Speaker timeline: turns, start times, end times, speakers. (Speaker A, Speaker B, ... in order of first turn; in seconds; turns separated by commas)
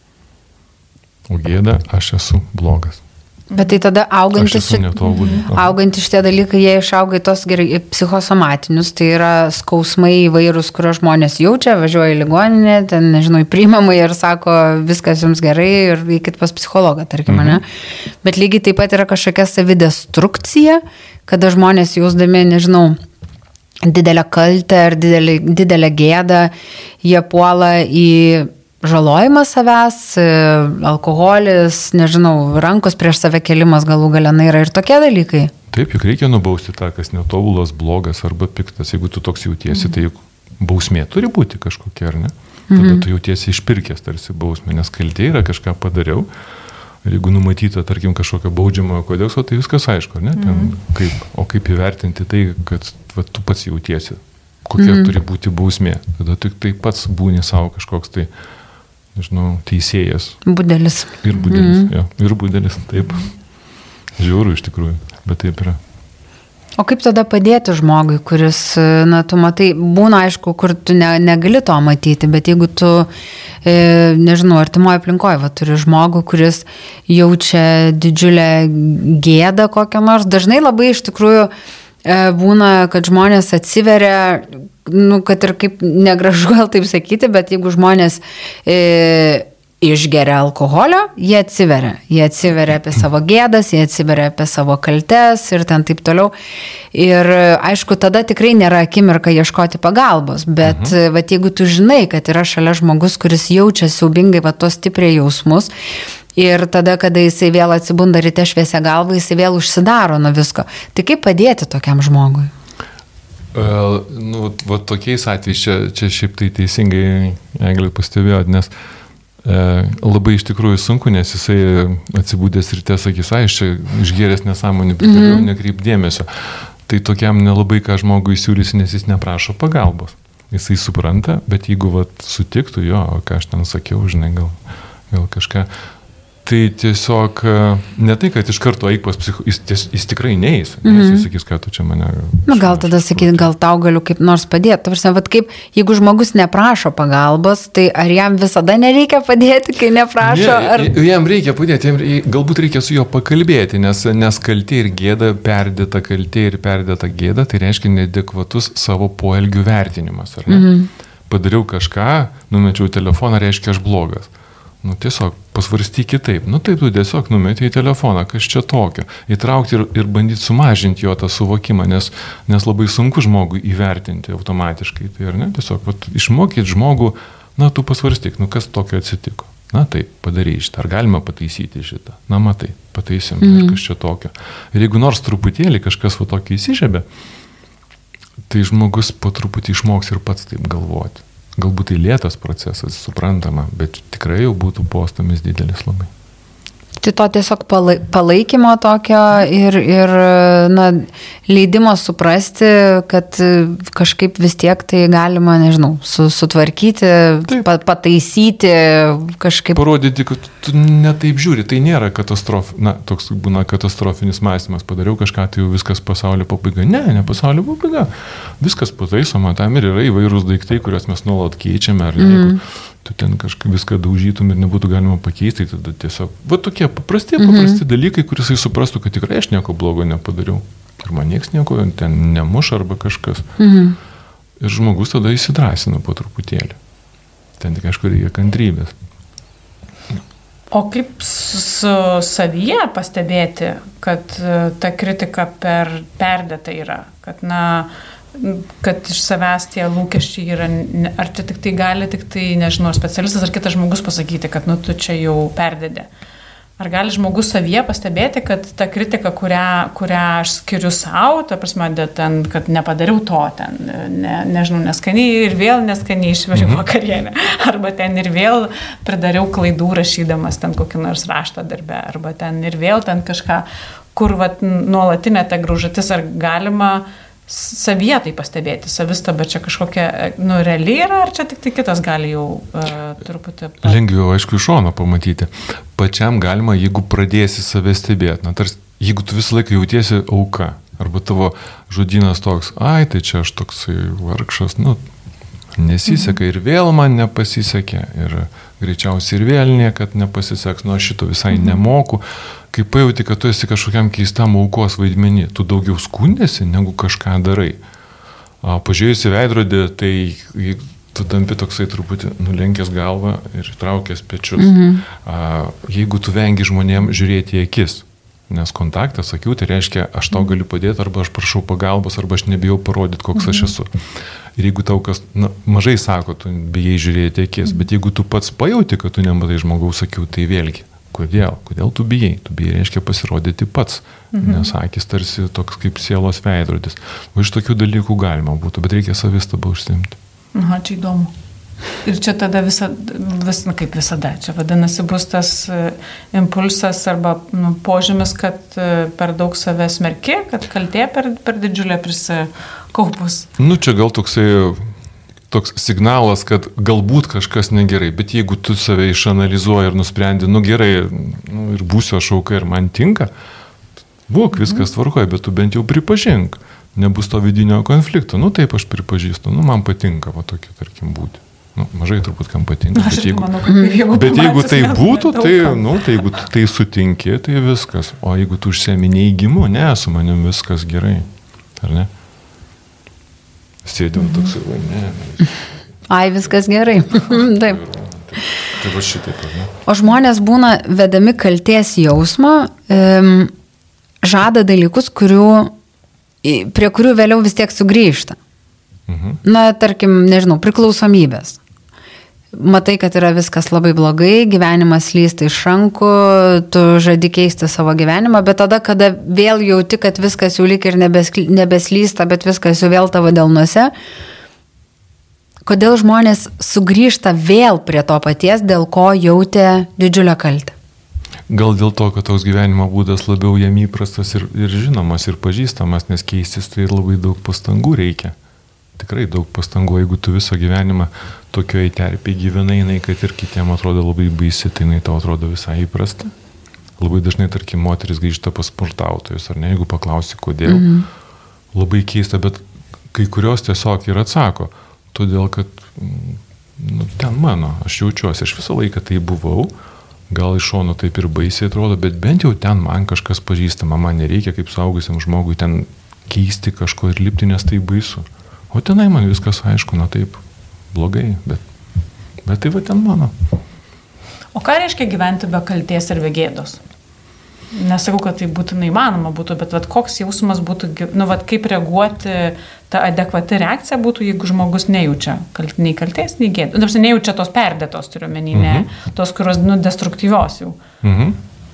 Speaker A: 1.3-3.0, Speaker B: 3.5-3.8, Speaker C: 3.6-17.6, Speaker A: 4.3-5.7, Speaker B: 5.2-5.4, Speaker A: 17.3-17.6, Speaker C: 18.2-23.0, Speaker C: 23.8-35.5, Speaker A: 35.7-46.3, Speaker C: 42.7-43.0, Speaker A: 47.0-58.3, Speaker B: 50.4-50.7, Speaker C: 54.8-55.1, Speaker A: 59.1-60.4, Speaker C: 60.4-61.9, Speaker A: 61.2-63.3, Speaker A: 64.2-65.8, Speaker C: 66.8-73.1, Speaker C: 73.6-81.5, Speaker C: 82.0-96.3, Speaker C: 96.9-105.7, Speaker A: 100.6-101.0, Speaker C: 106.3-112.5, Speaker A: 113.5-118.7, Speaker A: 119.4-134.6, Speaker C: 125.0-125.5, Speaker A: 135.1-135.7, Speaker A: 136.4-143.5, Speaker C: 140.8-141.2, Speaker C: 142.5-150.9, Speaker A: 150.2-160.7, Speaker C: 160.5-160.9, Speaker A: 161.3-164.3, Speaker A: 164.8-187.0, Speaker C: 183.4-183.8, Speaker A: 188.5-196.1, Speaker C: 197.0-209.8, Speaker A: 209.7-233.5, Speaker C: 222.2-222.6, Speaker C: 227.4-227.8, Speaker C: 233.6-234.0, Speaker A: 234.6-236.8, Speaker A: 237.6-238.9, Speaker B: 240.7-256.1, Speaker B: 256.8-284.0, Speaker A: 266.5-266.8, Speaker A: 283.8-295.0, Speaker A: 295.7-307.8, Speaker A: 308.6-323.9, Speaker C: 314.6-315.0, Speaker A: 324.6-340.2, Speaker B: 334.3-334.7, Speaker B: 340.5-341.3, Speaker B: 342.0-353.5, Speaker A: 353.6-354.9, Speaker A: 355.5-363.3, Speaker A: 364.3-373.6, Speaker B: 364.5-364.8, Speaker B: 372.9-375.9, Speaker C: 373.7-374.0, Speaker A: 374.1-381.3, Speaker A: 381.8-382.1, Speaker A: 383.8-385.6, Speaker C: 386.1-387.8, Speaker A: 387.2-389.7, Speaker C: 389.9-393.5, Speaker C: 394.2-395.7, Speaker C: 396.4-398.4, Speaker A: 399.1-399.4, Speaker C: 399.4-401.6, Speaker C: 402.5-413.9, Speaker C: 415.6-420.7, Speaker A: 421.5-428.3, Speaker A: 429.0-436.3, Speaker A: 437.0-440.9, Speaker C: 440.6-441.1, Speaker A: 441.7-449.7, Speaker A: 450.3-460.4, Speaker A: 460.9-461.6, Speaker A: 462.4-463.3, Speaker B: 464.5-466.8, Speaker B: 467.7-480.8, Speaker A: 478.5-478.9, Speaker A: 481.0-481.4